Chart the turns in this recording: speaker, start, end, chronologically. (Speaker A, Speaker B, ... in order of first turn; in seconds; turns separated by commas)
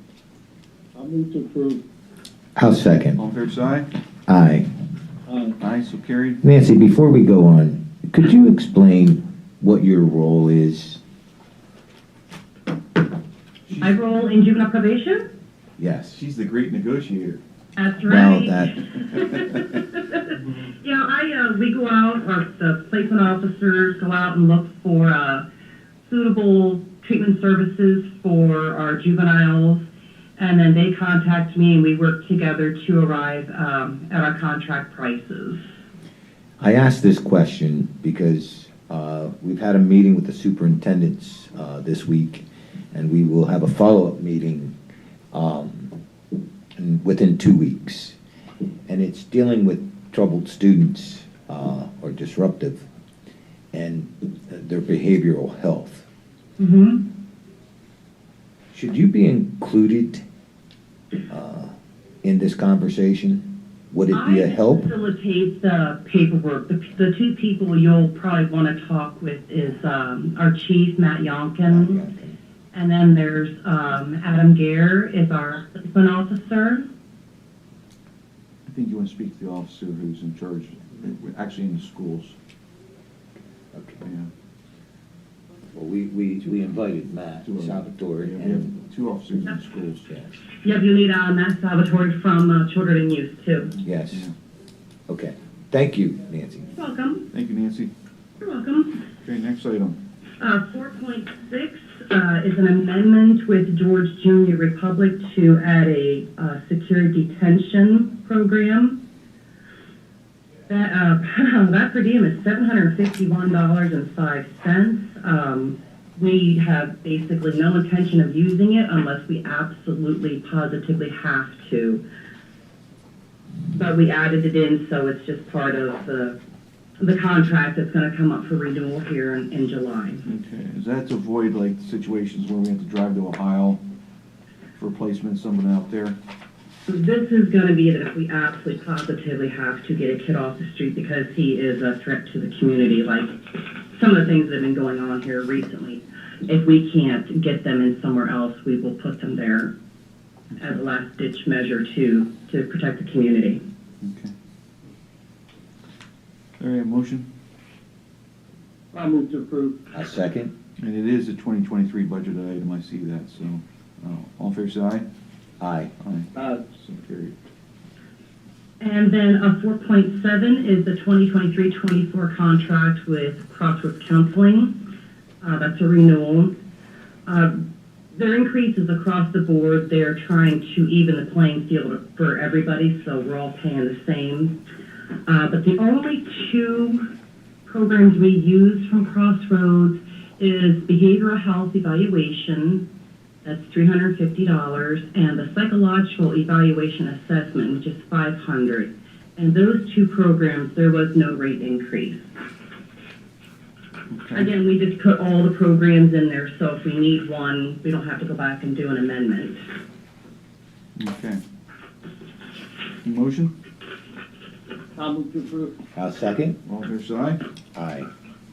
Speaker A: 0.9-1.8, Speaker B: 2.5-3.2, Speaker C: 3.1-3.9, Speaker B: 4.3-4.7, Speaker A: 5.3-5.5, Speaker C: 5.6-6.4, Speaker B: 6.4-11.0, Speaker D: 13.8-15.2, Speaker B: 15.8-16.2, Speaker C: 16.1-17.4, Speaker D: 17.8-25.4, Speaker B: 18.0-19.4, Speaker D: 26.0-29.8, Speaker D: 30.4-35.6, Speaker B: 36.6-44.7, Speaker B: 45.3-46.0, Speaker B: 46.8-48.1, Speaker B: 48.9-52.8, Speaker B: 53.7-56.0, Speaker D: 56.6-57.0, Speaker B: 58.7-60.2, Speaker B: 61.3-64.9, Speaker D: 64.1-72.0, Speaker B: 71.7-72.4, Speaker D: 72.7-76.9, Speaker C: 78.7-82.3, Speaker B: 83.7-84.0, Speaker C: 84.0-84.3, Speaker B: 85.7-88.7, Speaker C: 87.4-90.1, Speaker B: 90.0-90.3, Speaker D: 90.6-93.8, Speaker B: 93.8-94.3, Speaker B: 95.1-96.7, Speaker D: 96.7-97.3, Speaker C: 97.3-97.9, Speaker D: 98.4-99.0, Speaker C: 99.2-100.0, Speaker D: 100.4-109.0, Speaker D: 110.7-122.0, Speaker D: 123.7-126.4, Speaker D: 127.0-130.3, Speaker C: 130.2-133.8, Speaker C: 134.8-136.2, Speaker D: 136.9-149.7, Speaker D: 150.6-153.6, Speaker C: 154.0-154.3, Speaker C: 156.6-157.2, Speaker A: 158.9-159.8, Speaker B: 159.9-160.5, Speaker C: 160.8-165.1, Speaker B: 165.6-165.9, Speaker C: 166.0-167.3, Speaker A: 166.3-166.6, Speaker D: 168.8-174.8, Speaker D: 175.4-176.5, Speaker D: 177.2-184.6, Speaker D: 185.2-187.1, Speaker D: 187.6-192.8, Speaker D: 193.4-202.2, Speaker C: 204.1-204.5, Speaker D: 204.3-209.6, Speaker C: 210.9-211.4, Speaker C: 213.0-213.5, Speaker A: 215.0-215.8, Speaker B: 215.9-216.6, Speaker C: 216.7-217.4, Speaker B: 217.7-218.1